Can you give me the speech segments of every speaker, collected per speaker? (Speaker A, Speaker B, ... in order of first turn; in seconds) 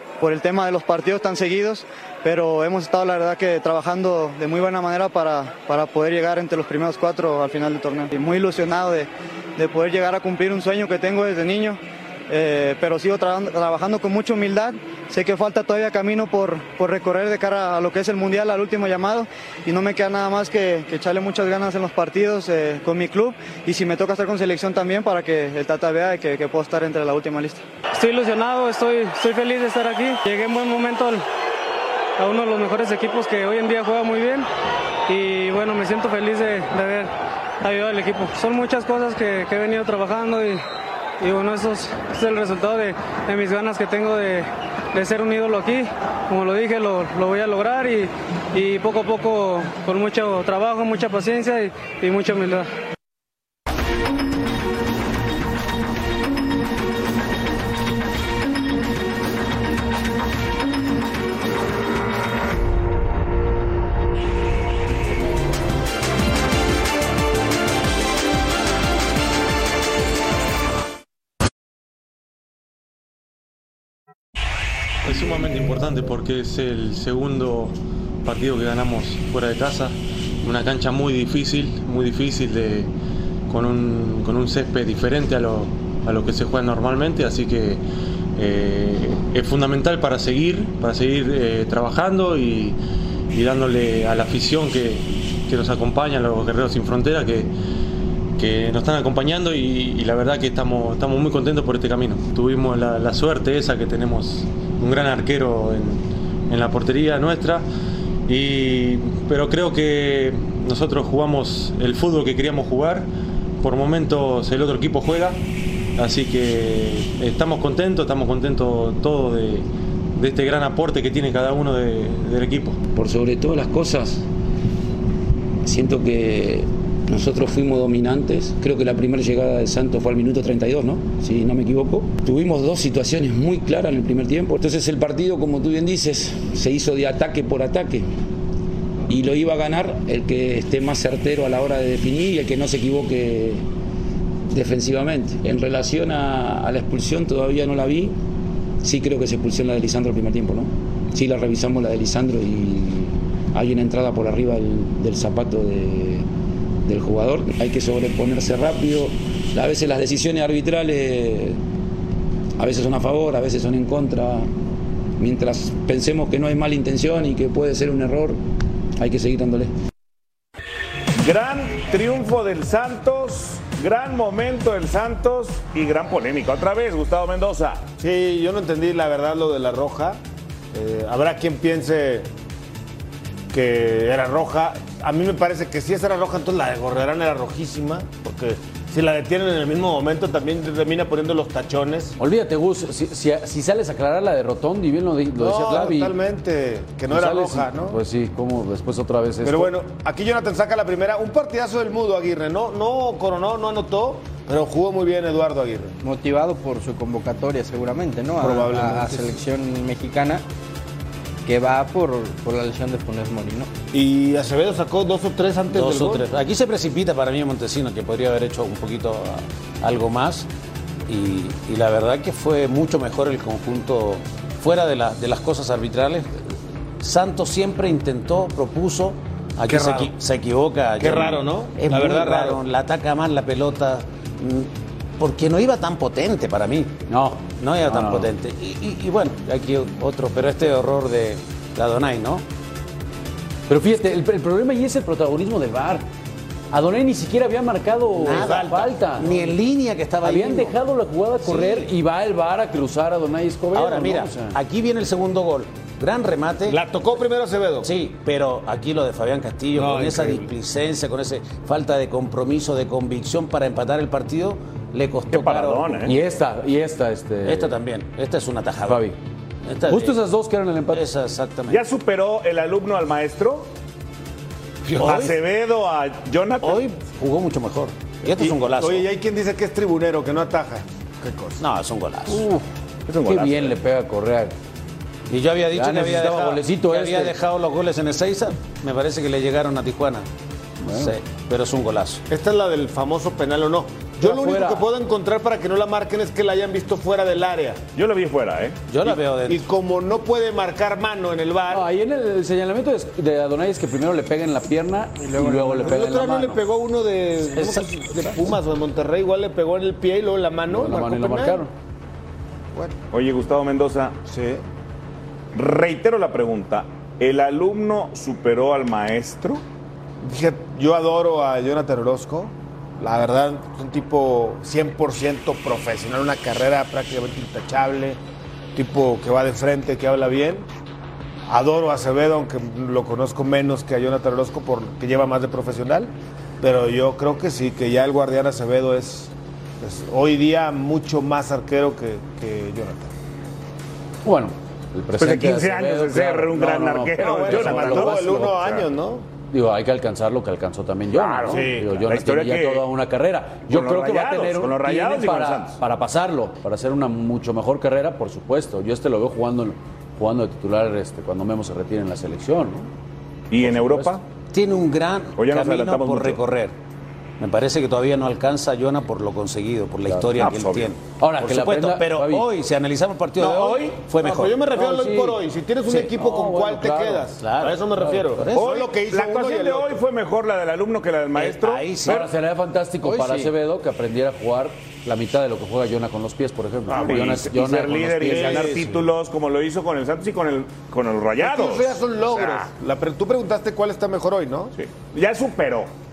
Speaker A: 0.2-27.6
Speaker B: 27.9-31.2, 32.2-34.5, 35.1-40.6, 41.2-52.7
Speaker C: 75.0-82.9, 83.5-87.8, 88.4-92.8, 93.3-97.5, 98.4-107.7, 108.3-113.1, 113.6-115.4, 116.0-122.8
Speaker D: 123.0-124.2, 125.6-138.1, 139.1-143.7, 144.5-148.2, 148.8-156.2, 156.9-161.6, 162.6-164.5, 165.2-168.4, 169.0-169.7
Speaker E: 171.2-177.8, 265.3-266.1, 271.7-273.7, 275.0-276.8, 283.1-283.7, 298.0-298.8, 313.1-314.2, 315.5-319.6, 345.2-348.9, 351.1-352.9, 353.7-355.8, 363.5-364.2, 365.4-366.4, 370.4-370.9, 378.6-382.3, 386.9-392.7, 394.8-395.9
Speaker F: 178.0-180.2, 180.7-182.3, 183.5-192.2, 195.4-198.0, 199.4-206.0, 208.4-209.4, 213.9-216.3, 229.7-230.1, 231.0-232.6, 256.7-257.9, 259.8-260.5, 278.4-281.6, 292.3-297.8, 299.4-301.9, 305.4-311.6, 314.3-314.6, 320.2-328.2, 328.8-330.7, 331.5-343.1, 347.2-349.3, 351.5-351.9, 373.4-380.0, 388.3-388.8, 391.4-394.7
Speaker G: 192.2-196.2, 197.1-199.7, 237.1-238.3, 243.7-246.1, 246.7-249.5, 250.2-254.6, 266.1-267.8, 268.9-269.2, 269.9-271.1, 282.3-282.6, 283.2-284.6, 285.7-287.4, 290.8-291.1, 294.2-294.9, 301.7-306.6, 310.7-311.7, 344.2-348.6, 349.5-362.9, 363.6-364.1, 370.1-370.4, 371.2-372.5, 374.2-375.4, 375.9-377.3, 378.0-378.4, 382.1-388.9
Speaker H: 206.0-210.4, 211.4-213.7, 305.3-305.8, 383.0-383.5
Speaker I: 215.7-220.5, 221.1-226.3, 227.0-236.9, 237.6-242.4, 248.2-250.8, 251.4-251.9, 253.7-256.8, 257.8-266.1, 267.5-269.0, 269.7-270.2, 270.9-271.8, 274.9-275.4, 276.6-279.1, 281.6-282.5, 285.3-290.3, 290.9-292.2, 298.9-299.6, 364.5-366.7, 367.4-374.5, 377.4-377.8, 378.4-378.8, 381.4-382.3